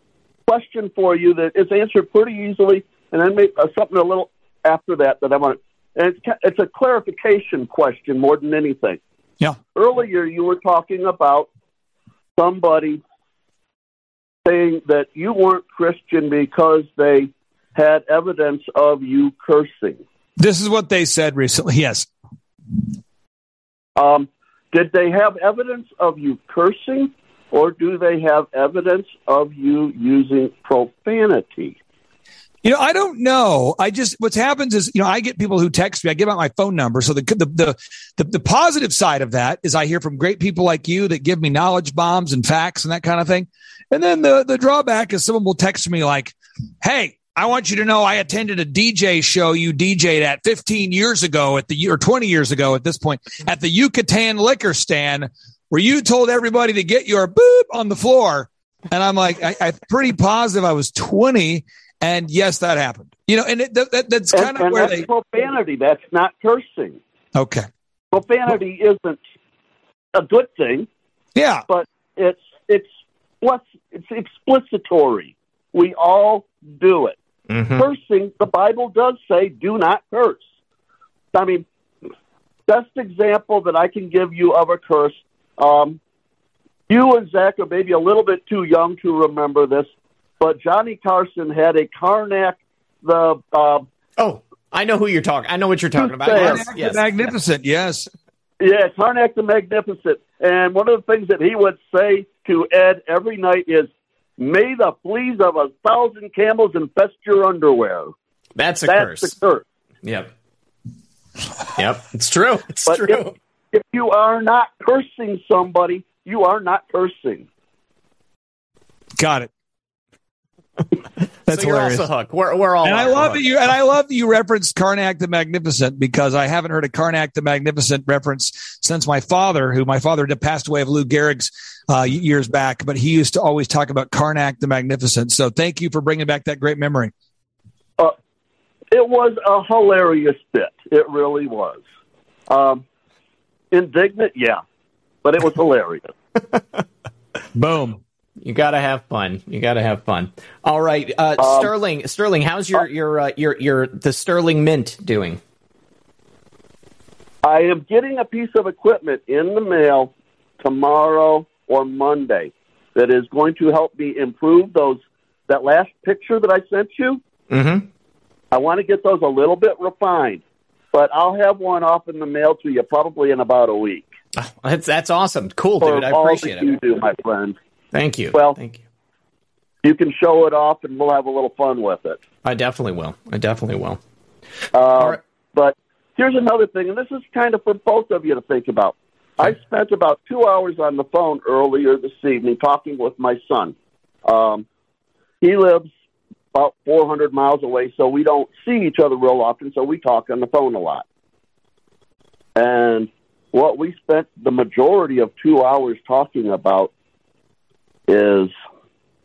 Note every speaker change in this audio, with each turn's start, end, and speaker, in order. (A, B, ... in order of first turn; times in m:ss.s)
0:00.5-0:09.0 A
0:09.8-0:11.5 A
0:12.4-0:13.0 A
0:14.4-0:20.0 A
0:20.4-0:22.1 B
0:24.0-0:31.8 A
0:32.6-1:05.0 B
1:04.3-1:07.0 A
1:07.3-1:07.7 B
1:08.1-1:09.2 A
1:10.1-1:10.9 A
1:11.3-1:11.6 B
1:11.7-1:12.9 A
1:13.4-1:17.2 A
1:17.5-1:17.8 C
1:17.8-1:20.4 A
1:21.3-1:21.6 A
1:22.7-1:26.0 A
1:26.9-1:29.9 A
1:30.4-1:33.8 A
1:34.2-1:37.3 C
1:36.0-1:36.6 A
1:36.3-1:38.1 B
1:38.6-1:48.1 A
1:48.6-1:49.3 C
1:48.8-1:49.6 A
1:50.0-1:50.3 C
1:51.8-1:53.3 C
1:52.8-1:57.5 A
1:59.2-1:59.5 B
2:01.5-2:03.5 C
2:01.5-2:02.0 B
2:02.8-2:17.1 B
2:18.9-2:21.8 A
2:22.5-2:22.8 A
2:23.7-2:24.6 A
2:25.2-2:26.1 A
2:27.5-2:28.0 B
2:28.4-2:35.4 C
2:31.4-2:31.7 A
2:37.4-2:47.2 A
2:47.5-2:47.9 C
2:48.5-2:50.4 A
2:50.9-2:54.0 A
2:54.4-2:56.8 C
2:55.8-2:57.6 A
2:57.9-2:58.8 C
2:59.8-3:02.2 A
3:02.4-3:04.0 C
3:04.7-3:14.6 A
3:15.4-3:15.9 A
3:16.5-3:21.0 A
3:22.6-3:26.9 A
3:28.1-3:28.5 A